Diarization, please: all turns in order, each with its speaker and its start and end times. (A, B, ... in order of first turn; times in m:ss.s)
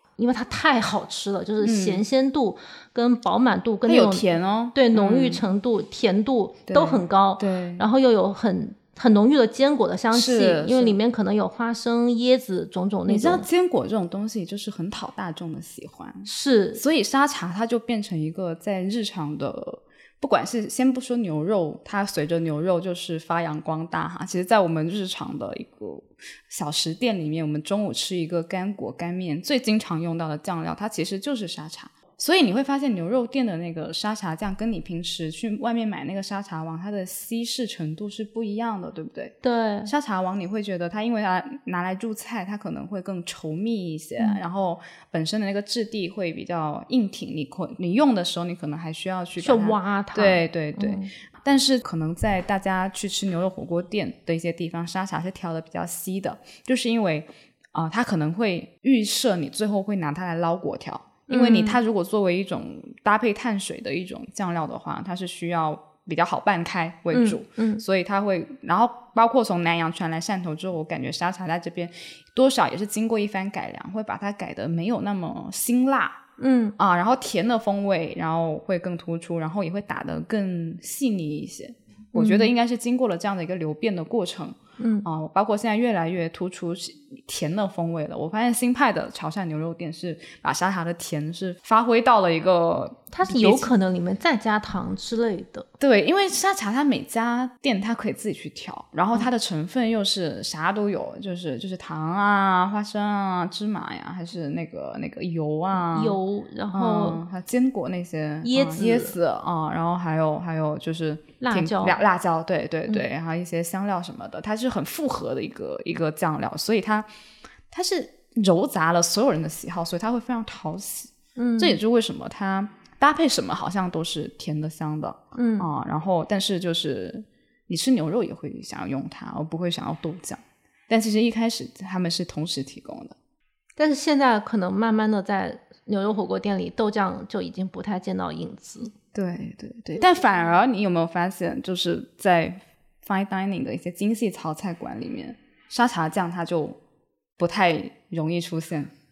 0:00.2-0:13.5 A
0:01.6-0:02.0 B
0:03.9-0:05.4 B
0:06.7-0:07.8 B
0:10.1-0:11.0 B
0:13.1-1:16.2 B
0:16.3-0:16.8 A
0:39.4-0:39.9 A
0:49.4-0:51.1 A
1:01.3-1:01.8 A
1:07.1-1:07.8 A
1:16.4-1:16.8 A
1:16.8-1:33.7 B
1:22.2-1:22.5 A
1:24.8-1:25.1 A
1:33.1-1:35.7 A
1:35.8-1:46.2 B
1:45.9-1:47.2 A
1:46.7-1:57.1 B
1:48.4-1:49.2 A
1:51.4-1:52.0 A
1:57.7-2:13.2 B
2:01.4-2:01.8 A
2:05.4-2:05.7 A
2:13.8-2:18.9 A
2:19.1-2:26.8 B
2:27.4-2:28.9 B